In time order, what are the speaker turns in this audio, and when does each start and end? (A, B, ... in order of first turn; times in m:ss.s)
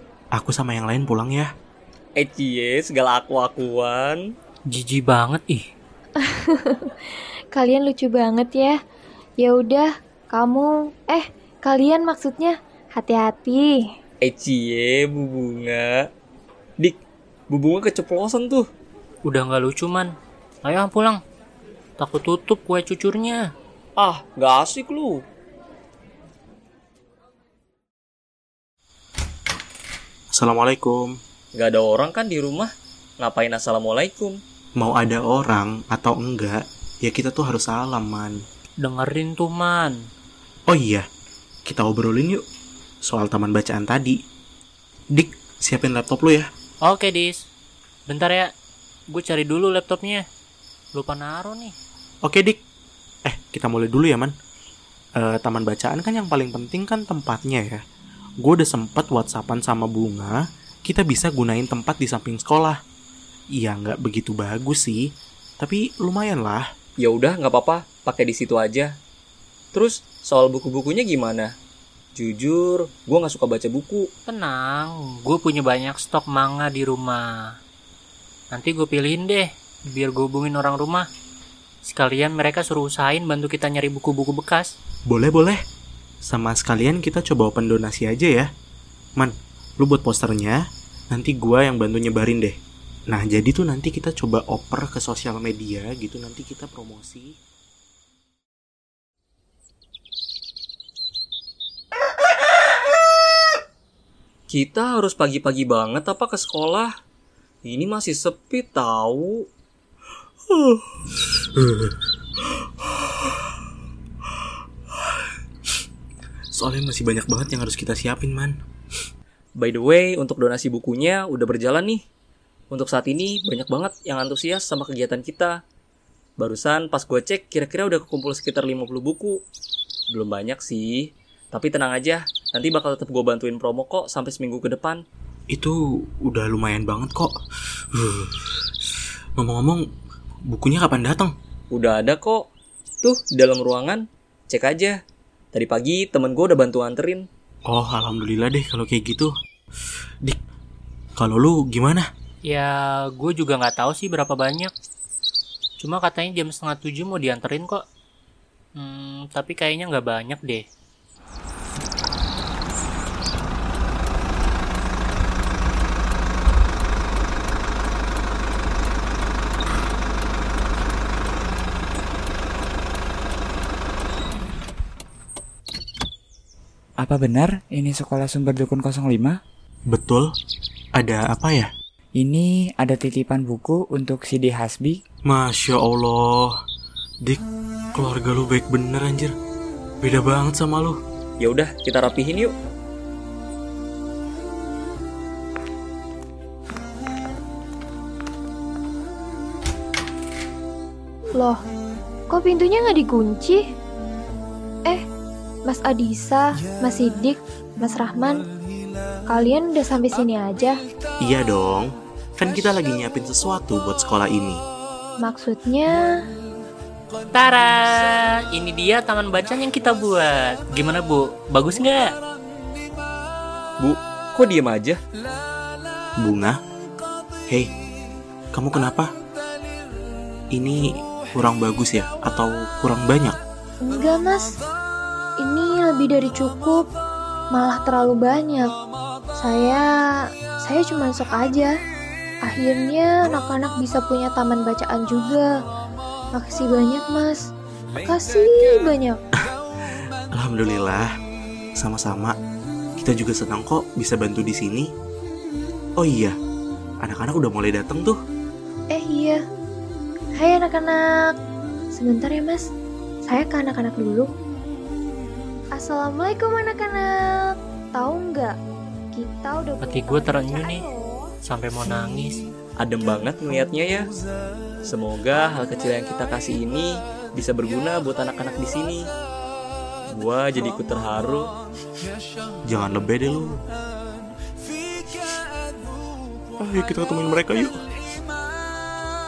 0:00.3-0:01.5 A
0:02.2-0:04.2 B
0:04.7-0:05.6 C
0:06.2-0:06.9 D
0:07.5-0:08.8 D
0:09.4-0:13.8 D
0:14.2-0:16.0 B
0:17.5-0:18.6 B
0:19.2-0:20.1 C
0:20.6-0:21.2 C
0:22.0-0:23.4 C
0:24.0-0:25.2 B
0:30.3-0:31.2 A
0:31.5-0:34.4 B
0:34.8-0:38.4 A
0:38.8-0:40.0 C
0:40.7-0:41.0 A
0:41.7-0:42.4 A
0:43.0-0:44.2 A
0:45.1-0:46.5 A
0:46.8-0:47.4 C
0:48.1-0:48.5 C
0:49.1-0:50.2 C
0:50.9-0:51.8 C
0:52.2-0:52.6 A
0:53.3-0:54.3 A
0:55.2-0:57.8 A
0:58.4-1:02.8 A
1:03.6-1:05.0 A
1:05.6-1:06.6 A
1:07.0-1:08.9 B
1:09.7-1:11.5 B
1:12.2-1:14.1 B
1:14.3-1:17.3 C
1:18.5-1:21.0 C
1:21.8-1:24.7 C
1:25.1-1:25.6 A
1:26.2-1:28.5 A
1:29.2-1:30.6 A
1:31.1-1:32.6 A
1:33.1-1:37.4 A
1:44.5-1:46.9 B
1:47.6-1:49.4 B
1:50.5-1:50.8 A
1:51.6-1:52.0 A
1:52.8-1:53.5 A
1:56.6-1:58.6 A
1:59.6-2:02.0 B
2:02.7-2:05.6 B
2:06.4-2:09.4 B
2:10.1-2:15.0 B
2:15.5-2:17.3 A
2:17.9-2:18.3 A
2:19.4-2:19.8 A
2:20.5-2:21.3 A
2:21.7-2:22.4 B
2:23.0-2:25.0 B
2:25.5-2:27.3 B
2:27.7-2:29.3 A
2:31.2-2:32.1 A
2:32.5-2:34.7 C
2:35.8-2:37.8 C
2:38.8-2:40.6 C
2:57.0-2:59.4 E
2:59.9-3:00.3 A
3:01.0-3:01.7 A
3:02.2-3:05.0 E
3:05.2-3:06.5 A
3:08.0-3:09.3 A
3:10.0-3:11.0 A
3:11.4-3:12.5 B
3:22.3-3:23.6 D
3:25.7-3:28.5 D
3:29.3-3:30.8 D
3:31.2-3:34.6 A
3:35.2-3:36.1 D
3:37.3-3:42.2 C
3:43.8-3:45.0 B
3:46.2-3:46.6 A
3:48.5-3:49.1 A
3:50.5-3:53.4 A
3:53.8-3:54.5 D
3:55.4-3:56.9 D
3:57.5-3:58.7 D
3:59.4-3:59.9 D
4:00.6-4:01.7 D
4:02.4-4:05.5 D
4:06.3-4:07.4 D
4:08.0-4:09.2 D
4:10.3-4:11.1 A
4:11.8-4:12.4 A
4:13.0-4:14.9 A
4:16.0-4:16.4 A
4:17.0-4:18.2 A
4:18.9-4:19.4 D
4:20.4-4:21.3 D
4:21.9-4:22.6 D
4:23.3-4:24.3 D
4:25.7-4:28.6 D
4:29.1-4:31.3 D
4:29.8-4:30.8 C
4:31.4-4:32.5 C
4:32.8-4:34.1 B
4:34.9-4:39.1 B
4:40.1-4:41.5 B
4:42.6-4:43.6 A
4:45.1-4:45.4 A
4:46.6-4:47.8 A